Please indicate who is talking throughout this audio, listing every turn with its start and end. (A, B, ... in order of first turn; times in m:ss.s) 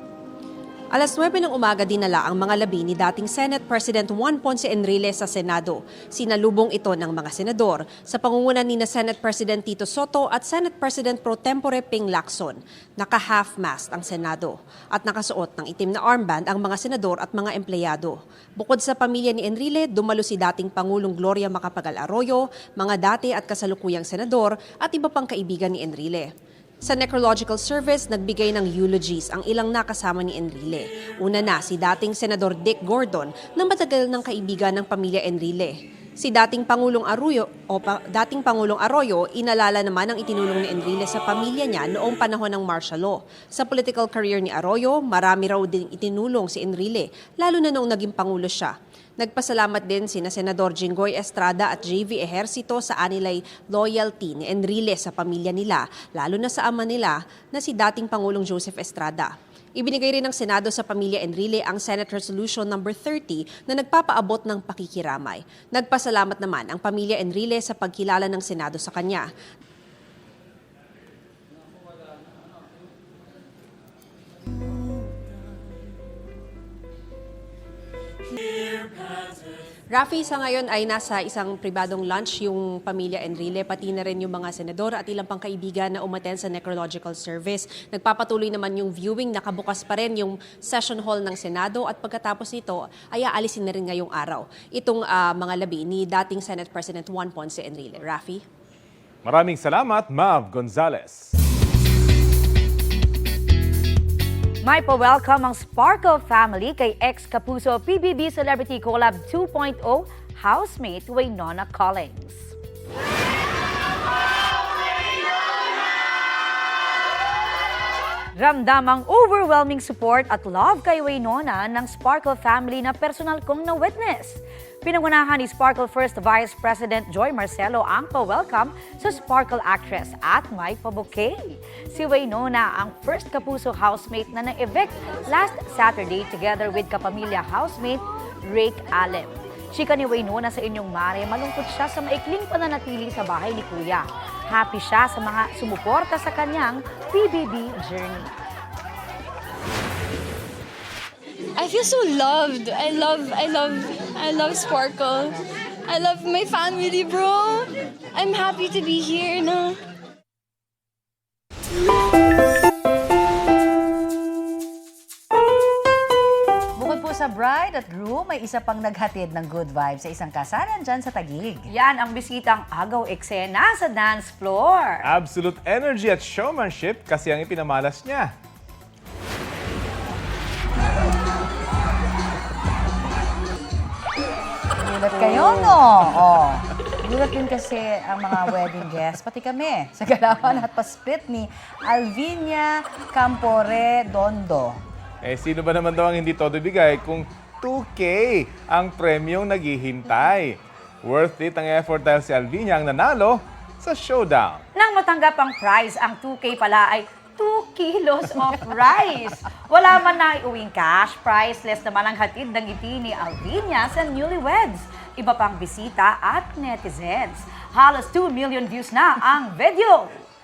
0:00.9-0:26.3 A
0:26.8-1:09.2 A
1:19.9-1:38.4 A
1:39.2-1:41.3 B
1:44.6-1:52.5 C
1:58.4-2:28.3 C
2:31.6-2:35.4 D
2:35.9-2:39.8 D
2:46.8-2:51.7 E
2:51.7-2:55.0 C
2:55.0-2:58.3 B
3:04.8-3:14.8 E
3:15.2-3:24.6 B
3:24.7-3:40.2 C